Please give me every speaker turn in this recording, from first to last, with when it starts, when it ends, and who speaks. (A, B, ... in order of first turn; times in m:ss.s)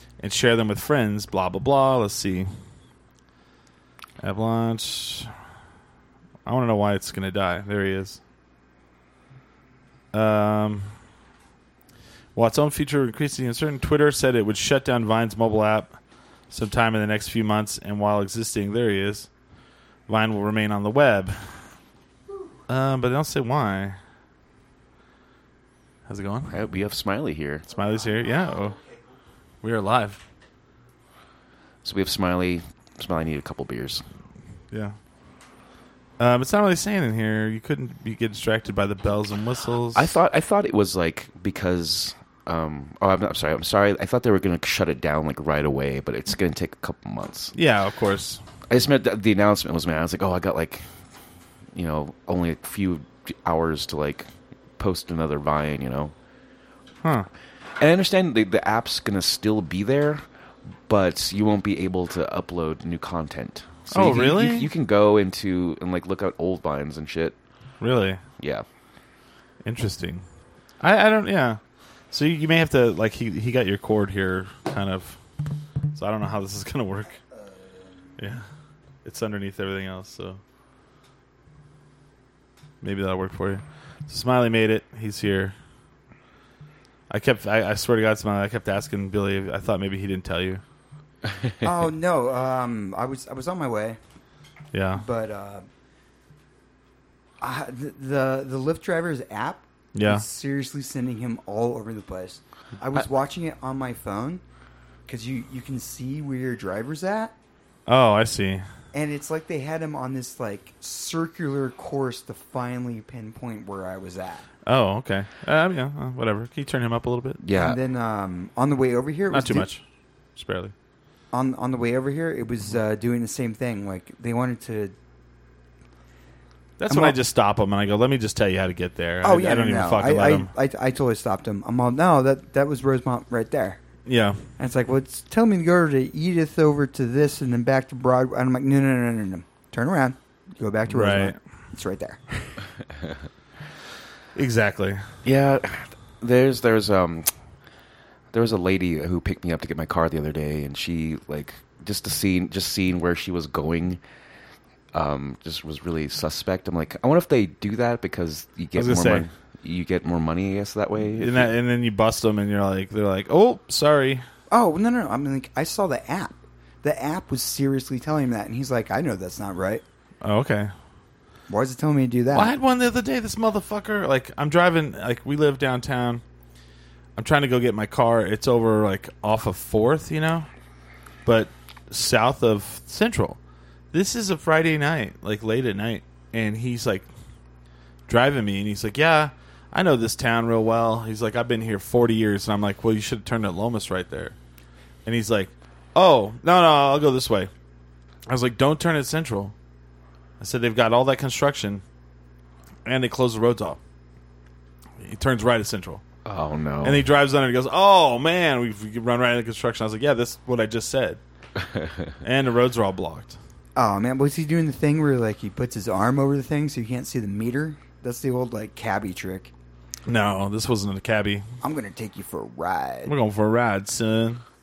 0:00.2-0:02.5 A
0:04.2-0:05.3 A
0:06.4-0:08.2 A
0:10.1-0:10.9 A
0:12.3-0:16.0 A
0:16.5-0:19.3 A
0:20.1-0:21.6 A
0:22.7-0:24.0 A
0:26.1-0:26.5 A
0:26.5-0:27.7 B
0:27.7-0:28.8 A
0:29.6-0:30.2 A
0:31.8-0:34.0 B
0:36.2-0:40.1 A
0:39.9-0:47.5 B
0:47.5-0:48.4 A
0:48.7-0:50.9 B
0:51.7-0:56.1 B
0:57.0-0:57.3 A
0:57.8-1:00.2 B
1:00.9-1:07.4 B
1:03.9-1:04.7 A
1:07.8-1:08.2 A
1:08.4-1:08.6 B
1:09.6-1:10.2 A
1:10.8-1:11.6 A
1:12.1-1:15.2 A
1:15.9-1:17.2 A
1:18.2-1:18.4 A
1:19.0-1:20.4 A
1:22.8-1:25.5 A
1:27.1-1:30.6 A
1:31.3-1:31.6 B
1:31.6-1:34.0 C
1:34.7-1:35.0 A
1:34.9-1:35.6 C
1:37.4-1:44.4 C
1:39.9-1:40.2 A
1:45.1-1:47.3 C
1:47.9-1:48.6 A
1:48.9-1:54.4 C
1:54.6-1:57.4 A
1:57.4-1:57.8 B
1:57.5-1:59.7 C
1:59.3-1:59.8 A
2:00.4-2:00.7 A
2:01.3-2:04.9 C
2:06.8-2:10.5 A
2:06.9-2:07.2 C
2:09.2-2:13.8 C
2:14.0-2:14.4 A
2:14.6-2:22.5 C
2:20.9-2:21.4 A
2:24.3-2:25.1 A
2:25.2-2:27.3 B
2:28.3-2:34.0 B
2:34.9-2:41.5 B
2:38.7-2:39.3 A
2:41.1-2:44.2 A
2:44.5-2:49.8 C
2:50.2-2:50.7 A
2:51.5-2:52.5 C
2:52.3-2:56.2 A
2:57.2-3:00.5 A
3:01.2-3:03.4 A
3:03.9-3:07.1 A
3:08.1-3:14.4 A
3:15.0-3:17.5 A
3:18.3-3:19.5 A
3:20.4-3:21.8 A
3:22.8-3:23.8 A
3:25.0-3:26.0 A
3:26.2-3:27.1 B
3:26.8-3:31.2 A
3:31.6-3:32.1 B
3:32.2-3:33.4 A
3:33.8-3:39.5 C
3:40.0-3:41.4 A
3:41.6-3:43.1 C
3:43.0-3:44.4 A